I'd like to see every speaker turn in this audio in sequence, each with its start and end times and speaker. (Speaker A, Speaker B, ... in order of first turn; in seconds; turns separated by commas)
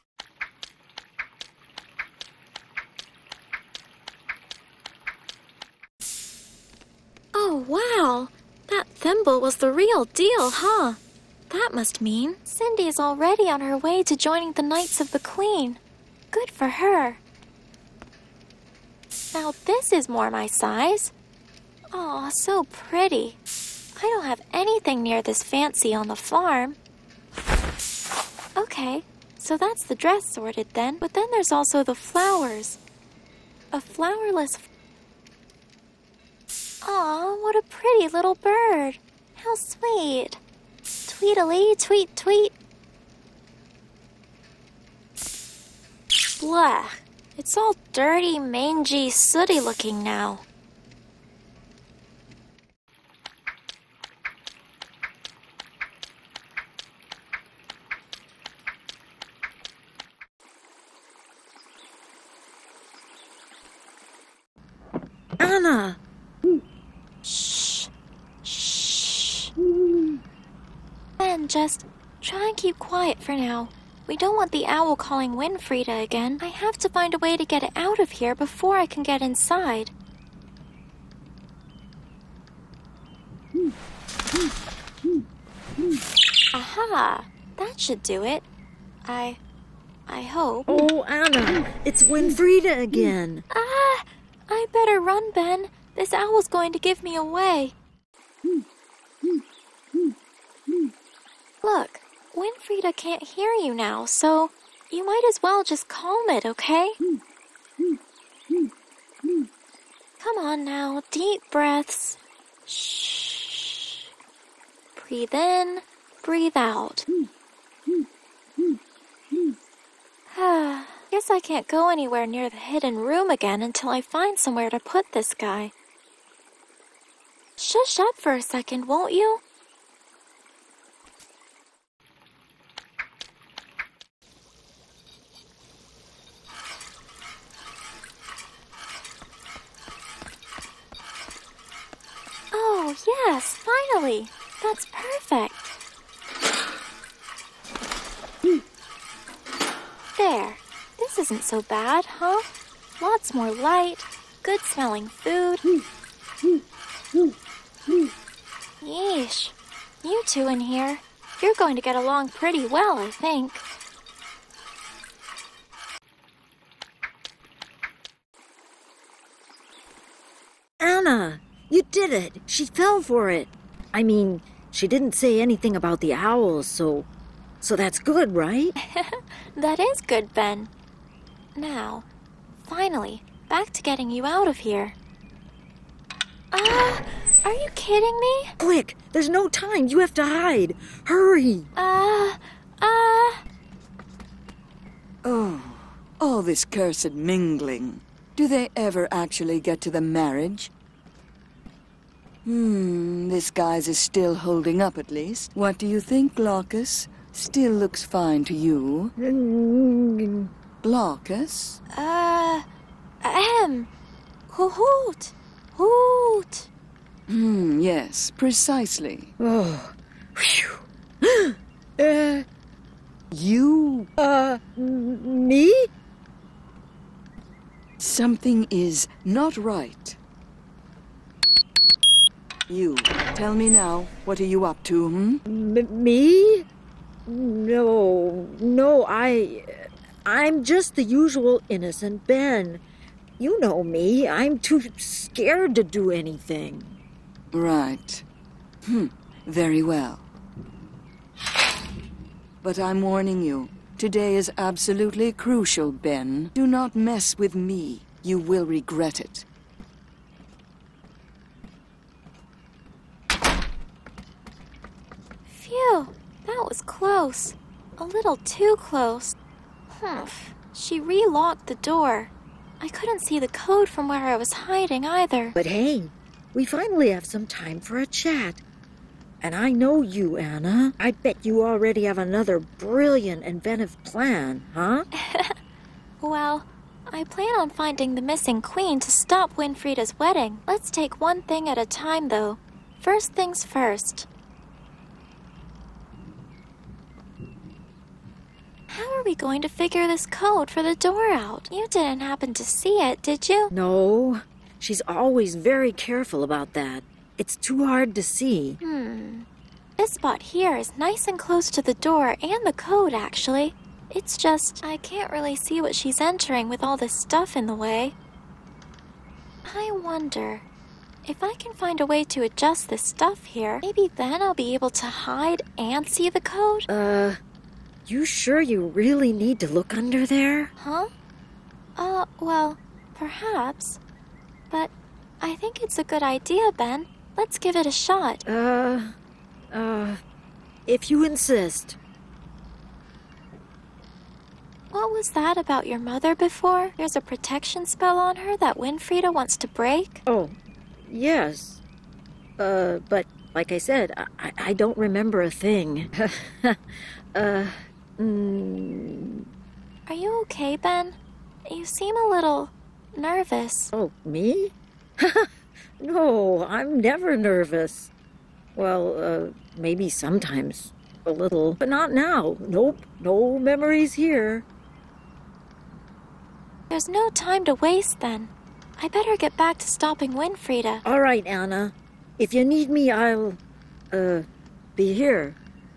Speaker A: 7.3-15.8, Speaker A: 16.3-17.2, Speaker A: 19.3-21.1, Speaker A: 21.9-23.4, Speaker A: 23.9-26.8, Speaker A: 28.6-32.8, Speaker A: 33.7-34.6, Speaker A: 36.8-40.4, Speaker A: 41.1-42.5, Speaker A: 46.4-50.4, Speaker B: 65.4-66.0, Speaker A: 67.2-67.9, Speaker A: 68.4-69.5, Speaker A: 71.2-79.9, Speaker A: 86.5-88.5, Speaker A: 89.0-89.4, Speaker A: 90.1-90.9, Speaker B: 90.7-93.4, Speaker A: 93.5-97.7, Speaker A: 101.6-107.0, Speaker A: 110.2-113.9, Speaker A: 114.9-117.0, Speaker A: 120.3-125.7, Speaker A: 127.6-129.4, Speaker A: 142.5-145.7, Speaker A: 150.2-152.4, Speaker A: 153.0-155.6, Speaker A: 158.8-163.6, Speaker B: 170.8-177.1, Speaker B: 177.6-178.8, Speaker A: 178.9-180.7, Speaker A: 181.5-182.1, Speaker A: 182.6-184.9, Speaker A: 186.5-188.5, Speaker B: 188.6-191.7, Speaker A: 191.8-193.4, Speaker C: 195.2-200.7, Speaker C: 202.4-209.1, Speaker B: 209.2-210.5, Speaker C: 210.8-211.8, Speaker A: 211.9-212.7, Speaker A: 213.2-213.9, Speaker A: 214.5-216.7, Speaker C: 217.3-219.3, Speaker B: 219.4-222.4, Speaker B: 223.3-225.9, Speaker C: 228.0-230.2, Speaker C: 232.7-235.4, Speaker B: 235.5-236.6, Speaker B: 237.2-242.8, Speaker B: 243.4-247.0, Speaker C: 247.5-248.2, Speaker C: 248.8-250.3, Speaker C: 252.6-259.5, Speaker A: 265.4-269.4, Speaker A: 269.9-275.6, Speaker B: 275.6-278.6, Speaker B: 279.4-285.1, Speaker A: 285.1-285.6, Speaker A: 286.2-294.3, Speaker A: 298.9-303.7, Speaker B: 303.7-308.8, Speaker A: 308.8-309.4, Speaker A: 310.0-318.1, Speaker A: 319.6-320.6, Speaker A: 321.2-326.9, Speaker B: 326.9-327.4, Speaker B: 328.1-330.7, Speaker A: 330.8-331.1, Speaker A: 332.0-334.0, Speaker A: 334.7-338.4, Speaker B: 338.5-339.1, Speaker B: 339.7-340.2, Speaker B: 340.9-342.0, Speaker A: 344.9-350.2, Speaker B: 350.3-351.8, Speaker B: 352.6-356.8, Speaker B: 357.3-359.4, Speaker A: 360.1-363.9, Speaker B: 363.9-368.1, Speaker B: 368.7-374.6, Speaker A: 376.9-381.0, Speaker B: 381.0-383.6, Speaker B: 384.1-384.4, Speaker B: 384.9-385.6